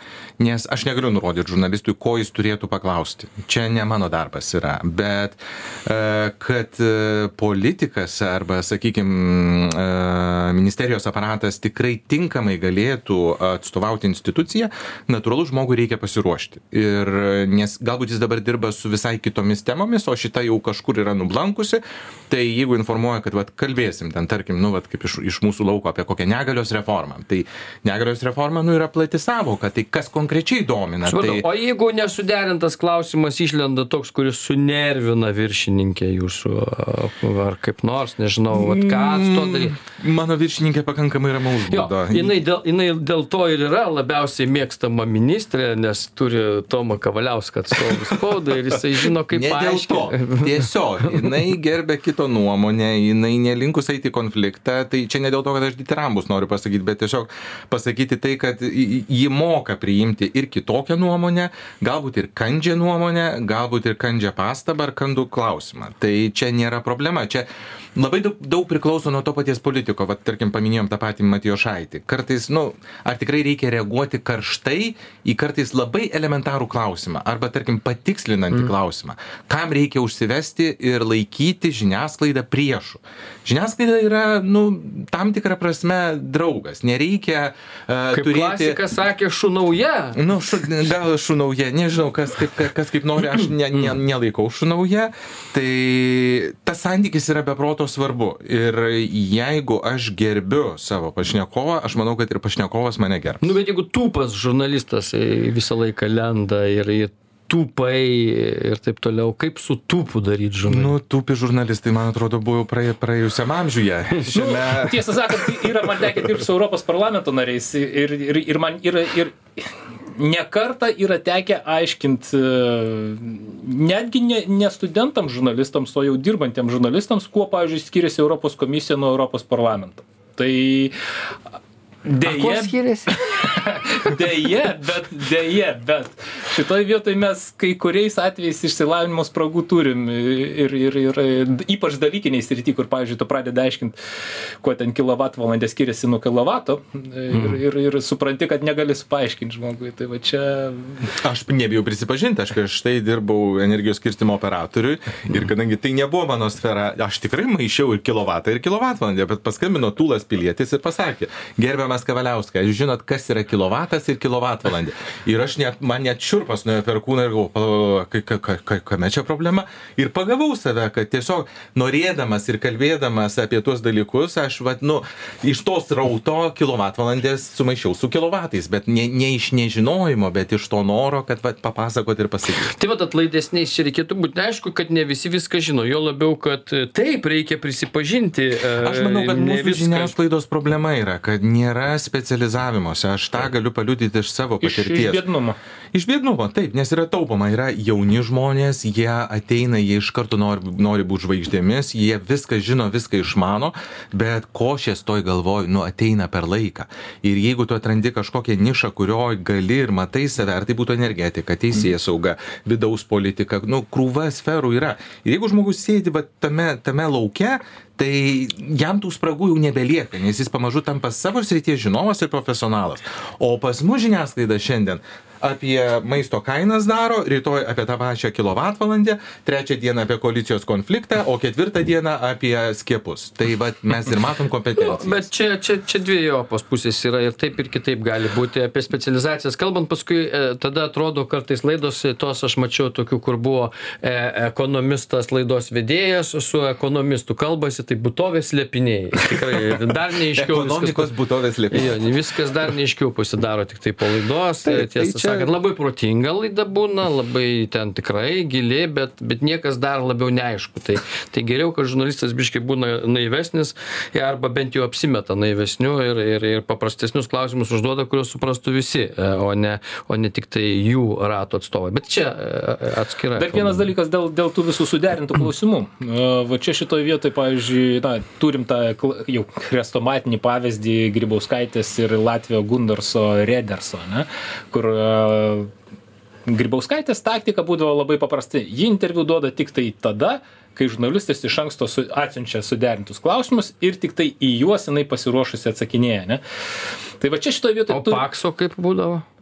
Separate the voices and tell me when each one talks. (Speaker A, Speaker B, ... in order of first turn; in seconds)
Speaker A: 0.4-31.5, 38.5-42.4, 49.1-88.8, 90.2-103.6, 110.7-115.9, 151.2-182.7, 188.8-195.2, 195.9-235.3, 250.3-252.1, 254.7-255.5
Speaker B: 31.1-39.8, 41.7-51.3, 88.1-90.2, 103.4-110.9, 132.2-133.2, 182.7-190.2, 234.8-251.1, 251.7-273.9, 297.9-299.2
Speaker C: 114.3-119.4, 120.1-130.9, 132.1-144.0, 144.6-151.1, 194.6-195.6, 273.4-285.7, 286.5-296.4, 297.2-298.2